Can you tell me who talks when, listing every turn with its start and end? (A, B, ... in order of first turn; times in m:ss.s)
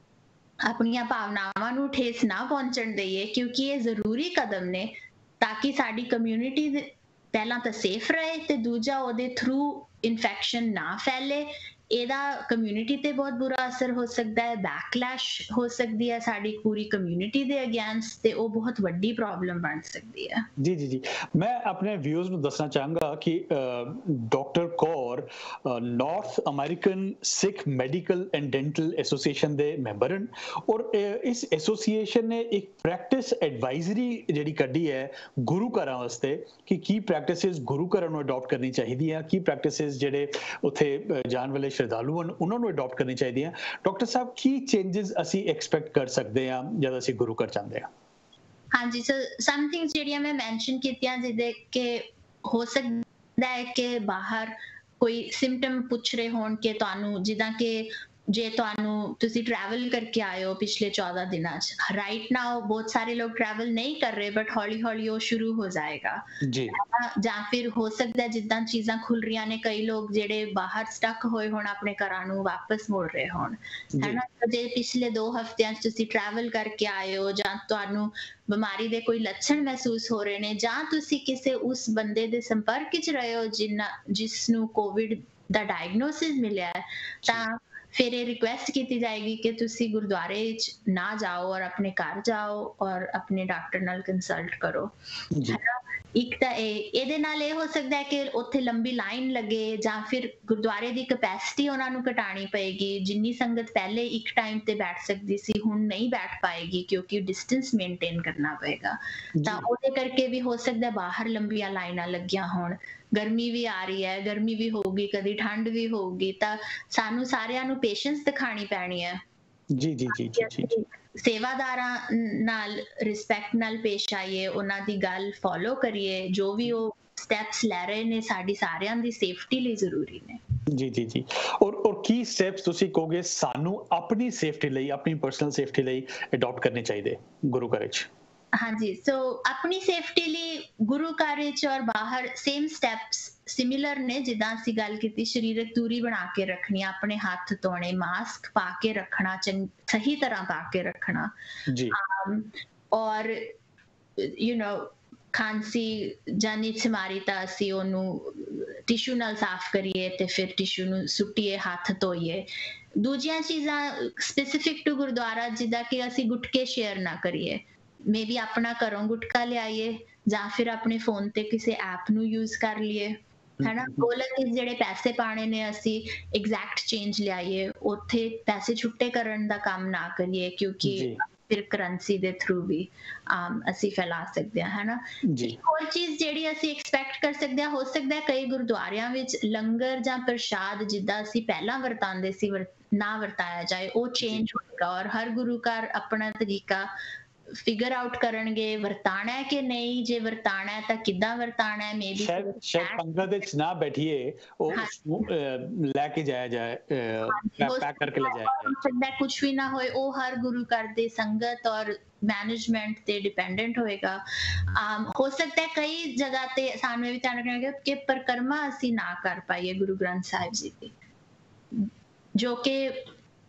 0:00.7-0:20.5 A
0:20.6-0:47.9 B
0:48.7-1:34.9 A
1:06.4-1:06.8 B
1:14.0-1:14.2 B
1:35.3-1:35.6 B
1:35.5-1:59.2 A
1:49.4-1:49.7 B
1:59.7-2:00.7 B
2:00.1-2:10.4 A
2:10.7-2:18.1 B
2:18.6-2:31.3 A
2:31.7-2:32.0 B
2:31.9-2:33.6 A
2:34.2-3:16.9 A
2:53.6-2:54.1 B
3:00.8-3:01.2 B
3:05.2-3:05.6 B
3:17.6-3:23.4 A
3:22.2-3:28.8 B
3:24.7-3:25.2 A
3:27.3-3:40.9 A
3:41.7-3:43.1 A